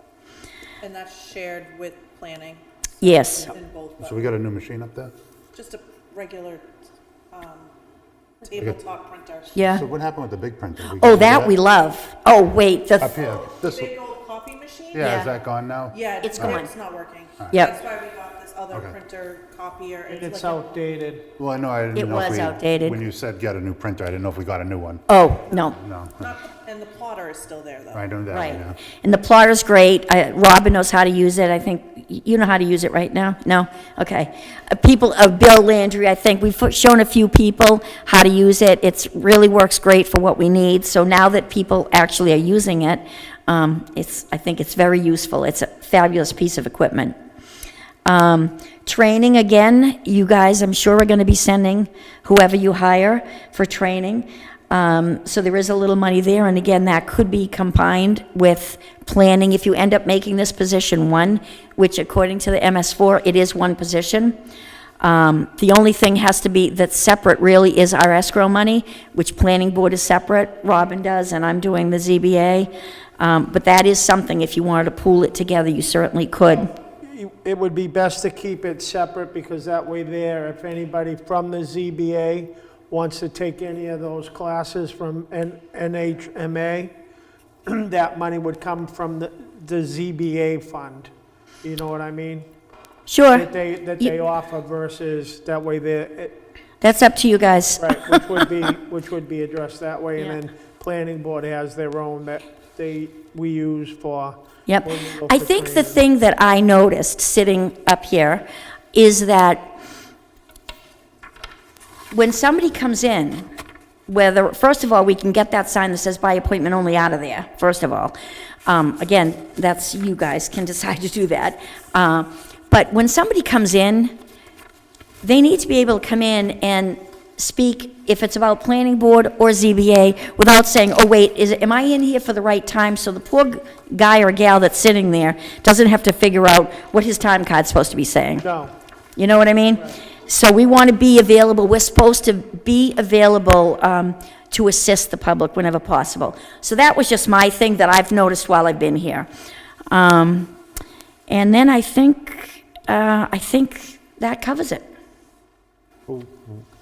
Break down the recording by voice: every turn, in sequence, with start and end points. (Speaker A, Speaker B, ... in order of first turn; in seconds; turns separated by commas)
Speaker A: 0.8-4.3, Speaker B: 3.0-3.5, Speaker C: 4.0-5.1, Speaker A: 5.5-6.7, Speaker A: 7.3-7.7, Speaker A: 8.4-9.7, Speaker B: 9.5-9.8, Speaker C: 9.6-11.6, Speaker B: 10.9-13.1, Speaker C: 13.0-13.9, Speaker A: 13.1-15.2, Speaker C: 14.9-16.6, Speaker B: 15.0-15.3, Speaker A: 15.9-20.6, Speaker B: 16.2-16.7, Speaker D: 20.1-21.3, Speaker C: 21.4-26.3, Speaker B: 21.9-23.0, Speaker B: 25.1-25.8, Speaker A: 26.2-28.2, Speaker C: 27.9-28.8, Speaker B: 28.3-47.1, Speaker B: 48.0-64.4, Speaker B: 65.0-76.7, Speaker D: 77.0-86.9, Speaker D: 87.7-91.1, Speaker D: 91.6-92.5, Speaker B: 93.1-93.5, Speaker D: 93.3-96.4, Speaker B: 96.8-98.2, Speaker D: 97.8-106.0, Speaker B: 104.7-109.7, Speaker B: 112.1-113.5, Speaker B: 114.1-118.1, Speaker B: 118.7-124.1, Speaker B: 125.2-138.4, Speaker D: 138.4-138.7, Speaker B: 139.2-149.3, Speaker B: 149.9-150.5, Speaker B: 151.3-154.8, Speaker C: 156.1-156.7